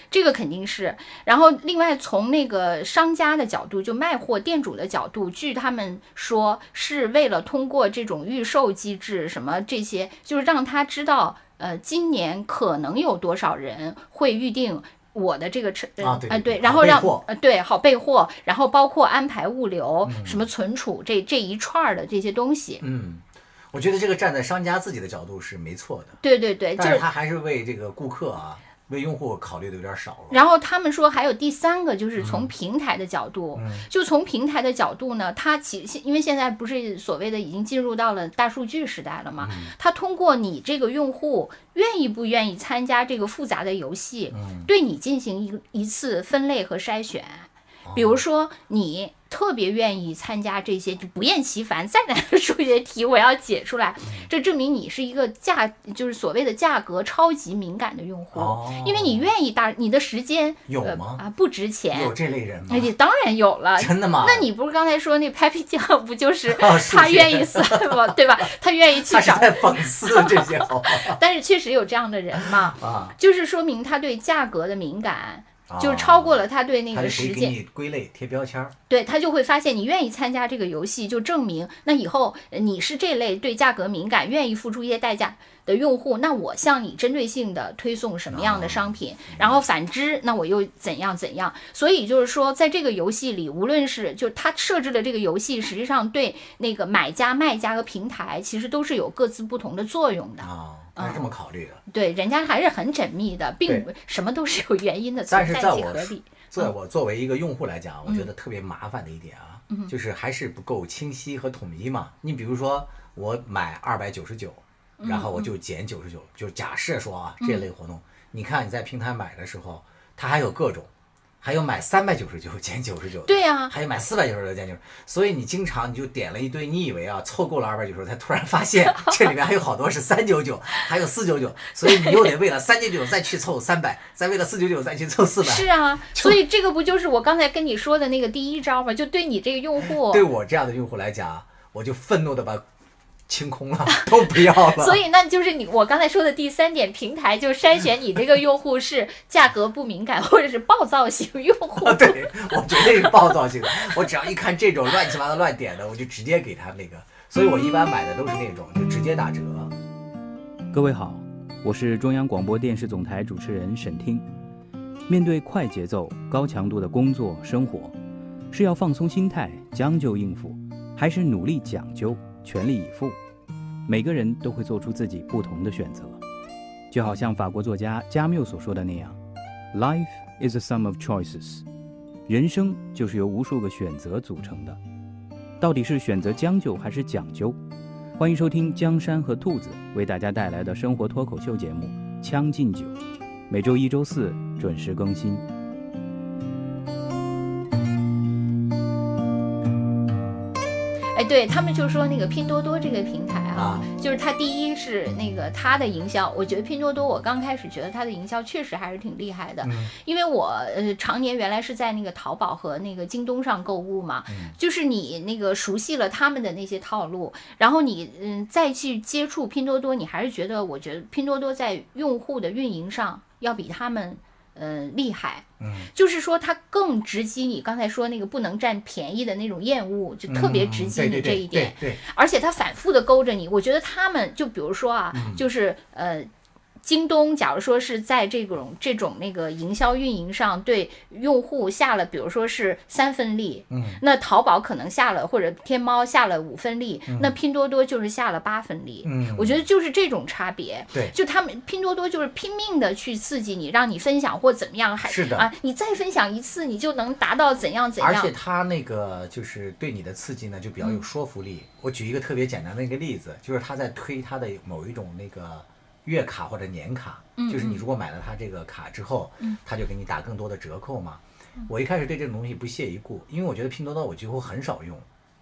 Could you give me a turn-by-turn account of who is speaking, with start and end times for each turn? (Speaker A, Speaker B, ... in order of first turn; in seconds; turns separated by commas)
Speaker A: 0.1-22.8, Speaker B: 16.0-17.2, Speaker B: 20.0-20.5, Speaker B: 22.8-26.2, Speaker A: 26.2-27.0, Speaker B: 26.8-30.4, Speaker A: 30.3-62.1, Speaker B: 32.2-32.5, Speaker B: 33.5-33.9, Speaker B: 39.4-39.7, Speaker B: 44.3-44.7, Speaker B: 47.9-48.2, Speaker B: 58.3-59.3, Speaker B: 60.7-61.2, Speaker B: 61.9-62.9, Speaker A: 62.7-77.6, Speaker B: 63.8-64.5, Speaker B: 66.5-68.1, Speaker B: 69.0-71.2, Speaker B: 72.4-73.1, Speaker B: 75.7-76.4, Speaker B: 76.9-78.7, Speaker A: 78.9-101.3, Speaker B: 88.3-89.6, Speaker B: 100.4-101.8, Speaker A: 101.9-106.7, Speaker B: 105.3-120.9, Speaker A: 115.0-115.5, Speaker A: 117.4-117.7, Speaker B: 121.4-136.4, Speaker A: 123.2-123.7, Speaker A: 131.8-132.3, Speaker A: 135.4-140.2, Speaker B: 139.9-142.6, Speaker B: 143.3-145.0, Speaker A: 143.9-153.1, Speaker B: 151.8-159.7, Speaker C: 160.7-164.2, Speaker C: 165.1-167.9, Speaker C: 168.5-173.2, Speaker C: 173.8-176.2, Speaker C: 176.9-179.2, Speaker C: 179.7-181.6, Speaker C: 182.3-184.8, Speaker C: 185.6-187.6, Speaker C: 188.2-192.9, Speaker C: 193.5-195.4, Speaker A: 201.1-236.3, Speaker B: 203.6-203.8, Speaker B: 209.6-209.9, Speaker B: 214.3-214.5, Speaker B: 225.6-225.9, Speaker B: 230.3-232.0, Speaker B: 235.1-235.4, Speaker A: 236.8-258.3, Speaker B: 243.7-244.0, Speaker B: 247.1-247.3, Speaker B: 249.0-249.6, Speaker B: 255.0-255.5, Speaker B: 258.0-275.1, Speaker A: 267.4-267.8